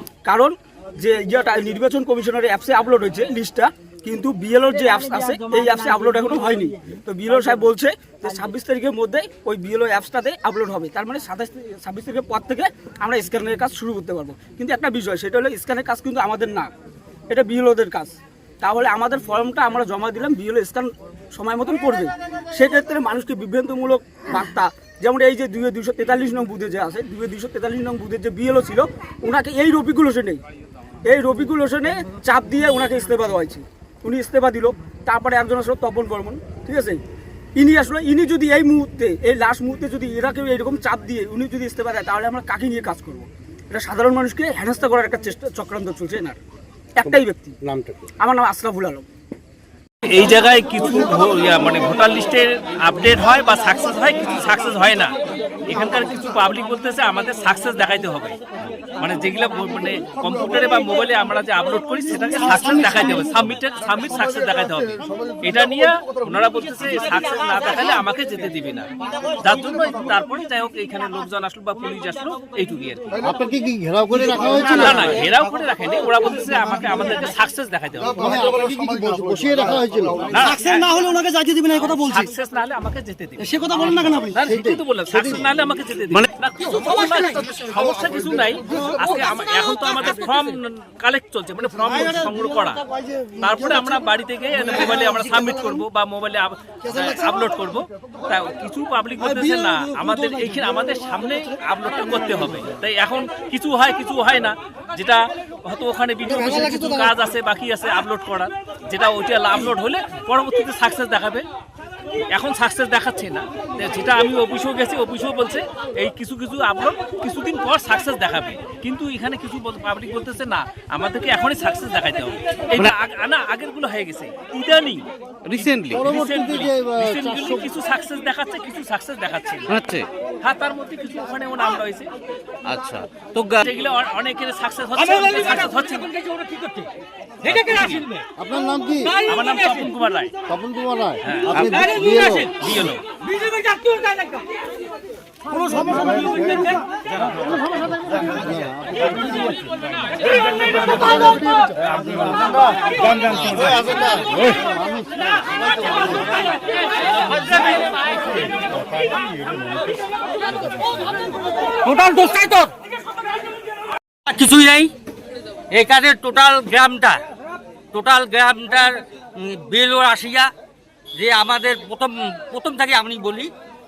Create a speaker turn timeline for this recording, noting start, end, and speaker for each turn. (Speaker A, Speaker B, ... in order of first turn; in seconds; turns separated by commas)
Speaker A: 0.2-16.7, Speaker A: 17.3-30.4, Speaker A: 31.0-37.0, Speaker A: 37.6-46.4, Speaker A: 47.0-47.5, Speaker B: 47.0-48.1, Speaker A: 48.2-49.1, Speaker C: 50.0-55.1, Speaker C: 55.7-58.4, Speaker C: 59.0-73.0, Speaker B: 73.2-75.3, Speaker C: 74.3-78.2, Speaker B: 78.2-80.5, Speaker C: 80.3-80.9, Speaker C: 81.7-92.8, Speaker B: 84.4-85.5, Speaker C: 93.4-111.5, Speaker C: 112.3-125.0, Speaker D: 125.5-126.0, Speaker C: 125.6-129.7, Speaker B: 125.9-127.7, Speaker D: 129.7-130.1, Speaker C: 130.4-132.1, Speaker D: 132.7-133.7, Speaker C: 133.6-136.1, Speaker E: 135.1-136.8, Speaker E: 137.5-138.0, Speaker B: 138.4-139.2, Speaker C: 139.2-140.3, Speaker E: 139.2-139.9, Speaker B: 140.5-142.8, Speaker C: 141.2-141.5, Speaker E: 141.7-142.5, Speaker C: 142.5-143.0, Speaker E: 143.5-144.1, Speaker B: 145.9-146.4, Speaker E: 146.1-146.6, Speaker B: 148.3-149.7, Speaker B: 150.5-156.4, Speaker E: 161.8-162.7, Speaker E: 164.3-164.9, Speaker E: 165.7-167.2, Speaker E: 167.9-170.5, Speaker E: 171.1-173.5